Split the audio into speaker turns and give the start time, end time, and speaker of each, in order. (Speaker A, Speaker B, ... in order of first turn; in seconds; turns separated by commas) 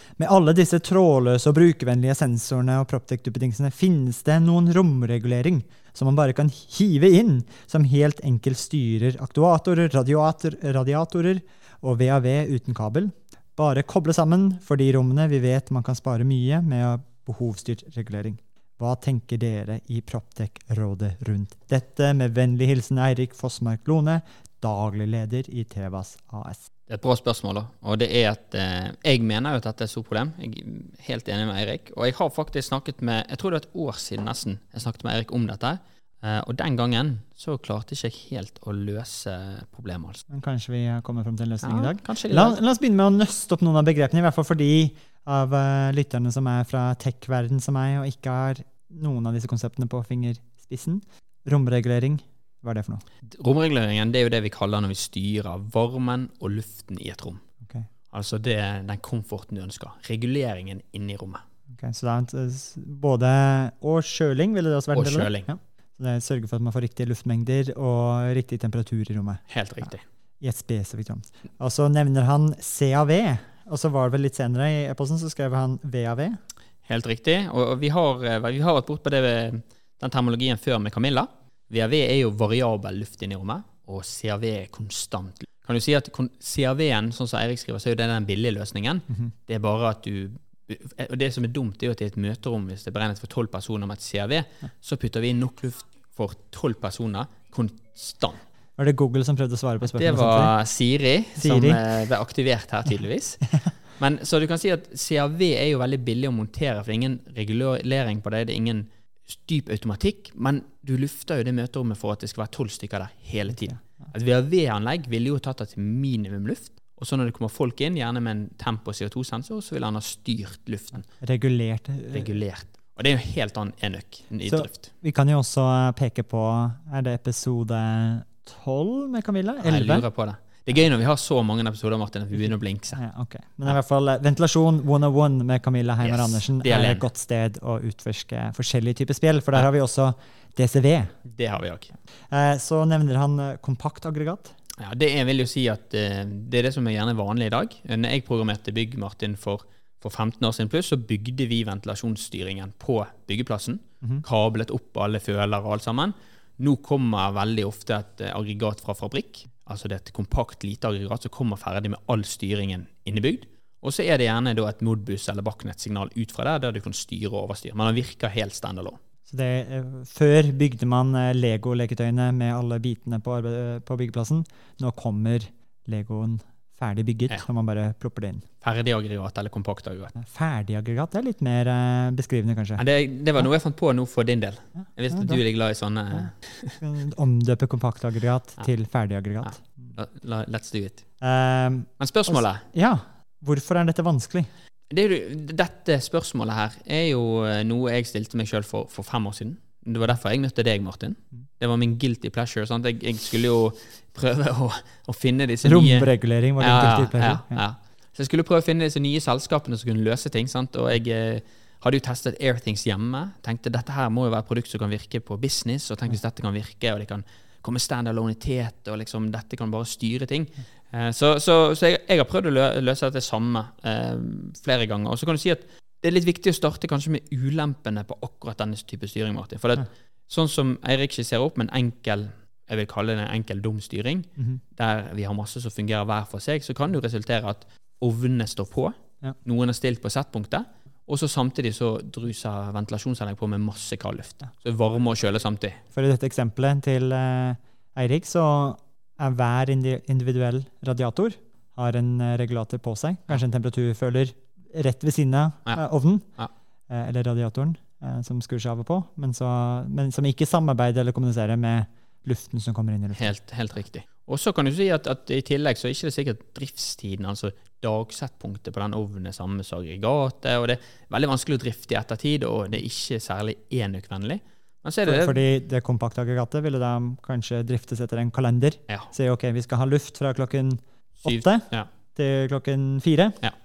Speaker A: 0.2-26.6, Speaker B: 26.9-40.2, Speaker A: 40.3-53.0, Speaker B: 41.6-42.6, Speaker B: 53.3-57.4, Speaker B: 58.1-61.4, Speaker A: 61.8-69.9, Speaker B: 64.9-65.5, Speaker B: 69.5-70.0, Speaker A: 70.4-76.4, Speaker B: 76.8-98.4, Speaker A: 98.8-100.6, Speaker B: 99.8-121.0, Speaker A: 101.4-101.8, Speaker A: 113.5-114.0, Speaker A: 121.2-122.3, Speaker B: 122.1-124.9, Speaker A: 124.5-130.1, Speaker B: 129.6-133.0, Speaker A: 132.4-141.1, Speaker B: 136.0-137.1, Speaker B: 141.2-141.9, Speaker A: 142.3-144.5, Speaker B: 144.8-169.0, Speaker A: 169.3-178.4, Speaker B: 178.6-180.1, Speaker A: 180.2-182.8, Speaker B: 182.8-186.8, Speaker A: 185.1-185.4, Speaker A: 186.1-189.9, Speaker B: 189.4-191.0, Speaker A: 191.2-194.5, Speaker B: 192.0-192.6, Speaker B: 194.9-245.8, Speaker A: 205.6-207.6, Speaker A: 245.9-256.4, Speaker A: 256.9-263.3, Speaker B: 263.1-275.4, Speaker A: 275.0-283.4, Speaker B: 281.2-281.9